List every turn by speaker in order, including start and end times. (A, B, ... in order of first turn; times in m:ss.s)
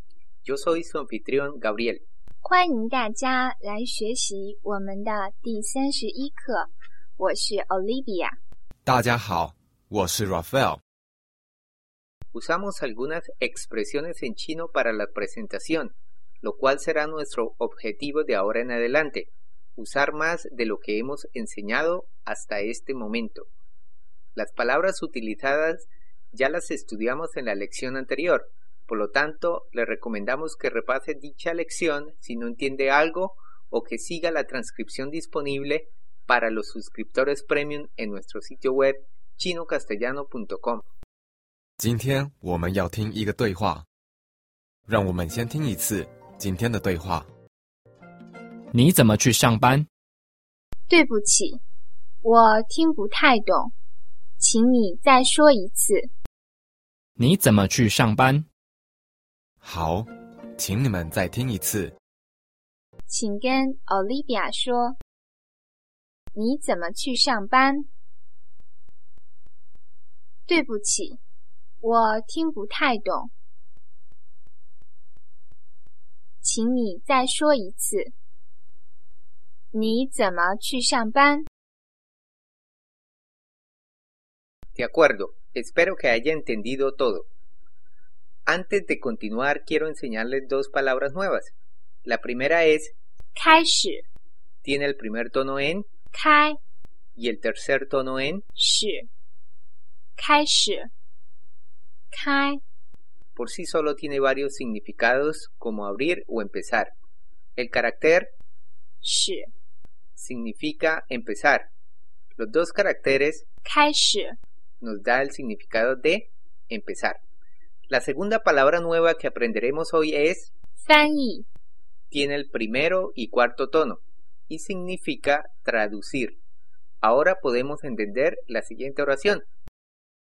0:00.4-0:02.0 A
0:02.4-0:08.4 B
0:08.8-0:10.8 C
0:12.3-0:23.5 A
0:24.3-0:40.8 A
0:41.8-0:43.8 C
0:44.9-0:47.3 C
0:48.7-0:49.9 D
0:50.9-0:51.6 B
0:52.2-0:53.7 B
0:54.4-0:56.1 B
0:57.2-0:58.4 D
0:59.6-1:02.0 C
1:03.1-1:05.0 B
1:06.3-1:07.9 B
1:10.4-1:11.2 B
1:11.8-1:13.3 B
1:16.4-1:18.1 B
1:19.7-1:21.4 B
1:24.8-1:27.3 A
1:28.4-1:31.5 A
1:32.0-1:32.9 A
1:33.3-1:34.0 B
1:34.6-1:35.8 A
1:36.1-1:36.6 B
1:37.2-1:38.4 A
1:38.6-1:39.1 B
1:40.2-1:40.9 B
1:42.1-1:42.6 B
1:43.4-1:46.9 A
1:47.6-1:48.3 A
1:49.0-1:49.5 B
1:50.2-1:51.7 A
1:52.4-1:53.5 A
1:53.6-1:54.4 B
1:54.8-1:57.2 A
1:57.9-2:00.5 A
2:00.8-2:01.4 B
2:02.1-2:06.4 A
2:07.0-2:09.4 A